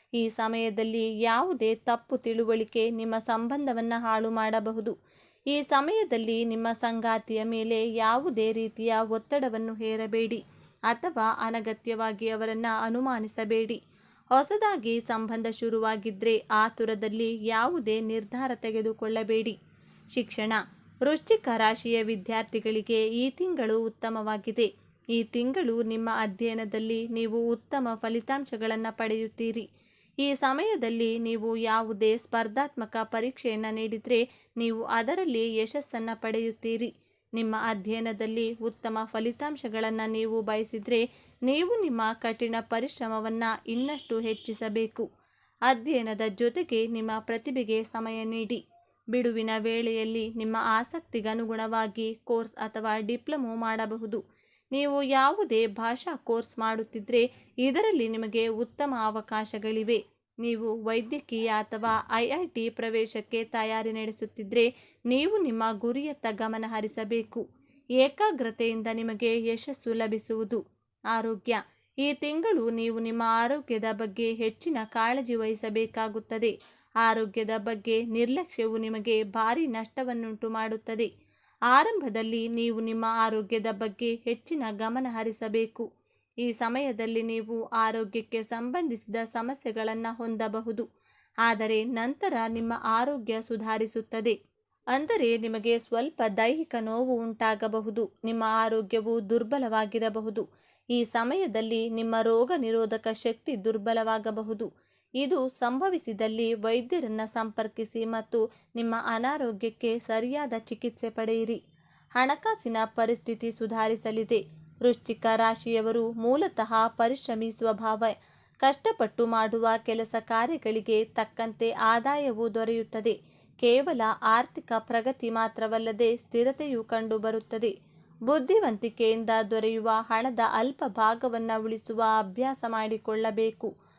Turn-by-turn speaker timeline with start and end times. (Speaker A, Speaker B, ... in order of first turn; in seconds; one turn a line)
Speaker A: 0.1-5.0
Speaker A: 5.5-13.8
Speaker A: 14.3-19.6
Speaker A: 20.1-29.7
Speaker A: 30.2-45.1
Speaker A: 45.7-48.6
Speaker A: 49.1-54.2
Speaker A: 54.7-67.4
Speaker A: 68.0-70.6
Speaker A: 71.1-81.1
Speaker A: 81.7-85.9
Speaker A: 86.4-90.9
Speaker A: 91.5-94.3
Speaker A: 94.9-104.7
Speaker A: 105.2-111.6
Speaker A: 112.2-127.7
Speaker A: 128.3-133.7